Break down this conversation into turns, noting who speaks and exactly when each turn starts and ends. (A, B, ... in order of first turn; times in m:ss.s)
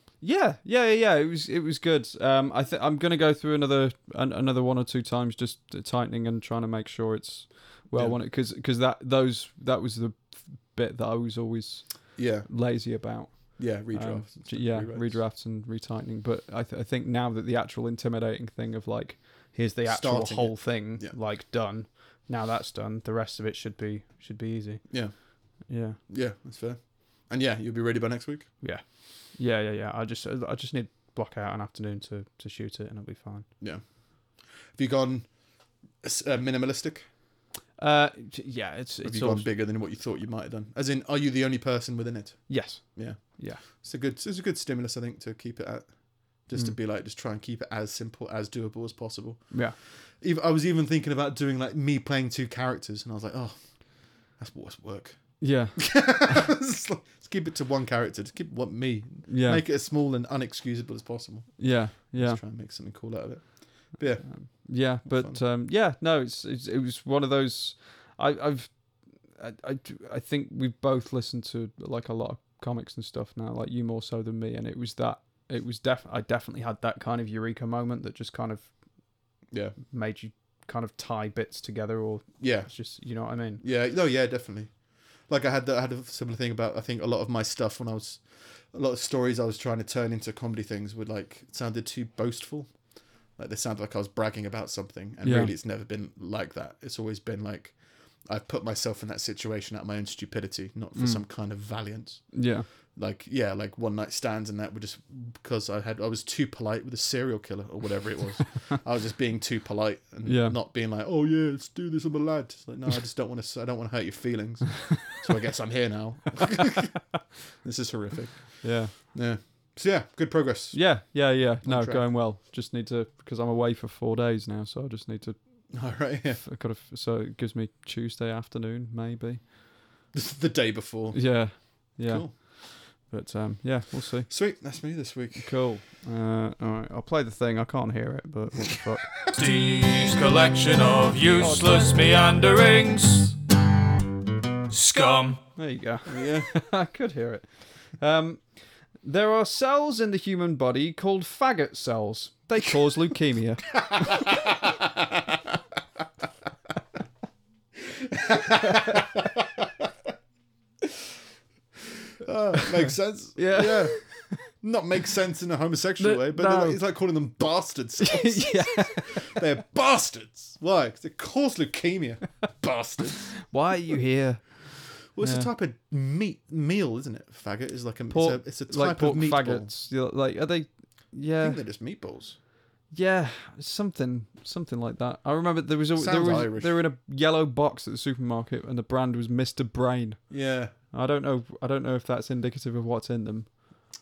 0:00.2-0:24.8 A
0:07.9-0:08.2 B
0:12.2-0:12.5 B
0:13.6-0:15.2 B
0:19.8-0:21.2 B
0:25.6-0:26.0 A
0:26.1-0:28.5 B
0:29.3-0:33.5 A
0:34.7-0:35.3 B
0:36.0-0:37.1 B
0:37.8-0:39.5 A
0:39.0-0:45.9 B
0:42.5-0:43.6 A
0:46.4-0:49.5 B
0:49.5-0:49.8 A
0:50.2-1:05.4 B
0:55.4-0:56.4 A
0:59.3-0:59.6 A
1:01.6-1:02.4 A
1:04.2-1:18.7 A
1:19.5-1:19.8 B
1:19.8-1:23.6 A
1:22.4-1:22.7 B
1:23.6-1:24.7 B
1:25.3-1:32.7 B
1:33.4-1:37.8 B
1:35.2-1:35.5 A
1:38.3-1:42.4 B
1:41.0-1:41.2 A
1:42.3-1:42.7 A
1:43.0-1:57.1 B
1:50.2-1:50.6 A
1:57.6-2:00.8 B
1:58.6-1:58.9 A
2:00.7-2:05.4 A
2:01.6-2:02.0 B
2:05.7-2:06.4 B
2:06.4-2:09.4 A
2:10.1-2:12.3 B
2:11.1-2:14.3 A
2:14.3-2:15.5 B
2:15.4-2:19.1 A
2:19.3-2:23.4 C
2:21.4-2:21.9 A
2:24.7-2:25.4 C
2:25.5-2:34.2 A
2:26.1-2:26.5 B
2:33.9-2:34.9 B
2:37.9-2:39.9 B
2:42.2-2:53.4 B
2:43.4-2:44.4 A
2:46.0-2:46.8 A
2:48.0-2:49.4 A
2:53.5-2:54.5 A
2:55.1-2:59.7 B
2:55.2-2:55.5 A
2:58.1-3:01.6 A
3:01.4-3:02.4 B
3:02.9-3:10.3 A
3:06.0-3:06.8 B
3:10.3-3:10.7 B
3:10.9-3:13.5 A